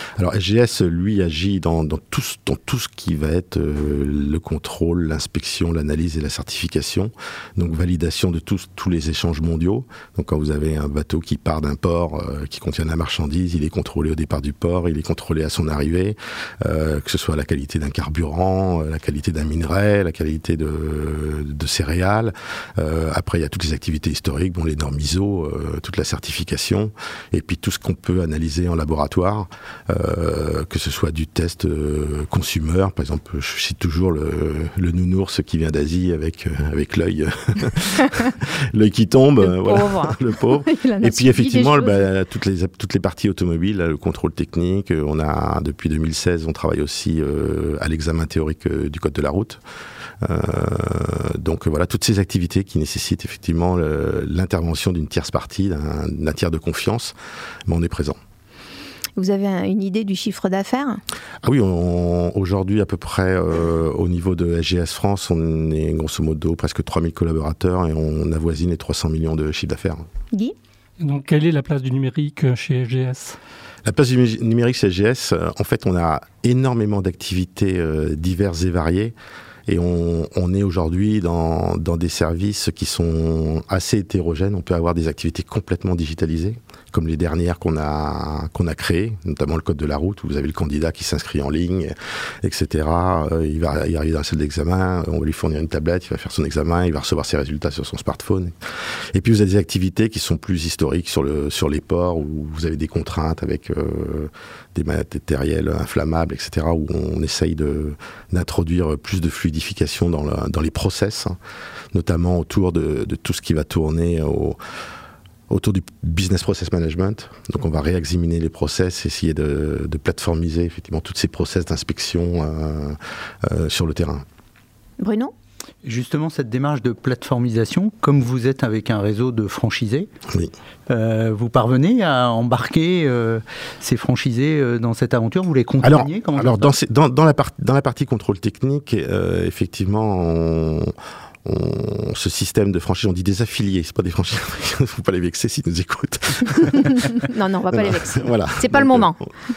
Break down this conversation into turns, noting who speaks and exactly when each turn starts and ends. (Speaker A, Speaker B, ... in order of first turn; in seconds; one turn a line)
Speaker A: 0.2-49.6
Speaker B: 39.4-42.1
Speaker A: 50.2-57.1
Speaker A: 57.6-58.2
Speaker B: 59.2-61.0
Speaker A: 61.4-70.0
Speaker C: 71.0-73.4
Speaker A: 73.8-79.1
Speaker A: 79.7-98.5
Speaker A: 99.1-111.3
Speaker A: 111.9-114.6
Speaker A: 115.5-124.2
Speaker B: 125.0-125.3
Speaker D: 125.8-130.1
Speaker D: 130.9-136.7
Speaker A: 135.8-140.9
Speaker A: 141.4-147.2
Speaker B: 147.2-149.2
Speaker A: 147.7-149.2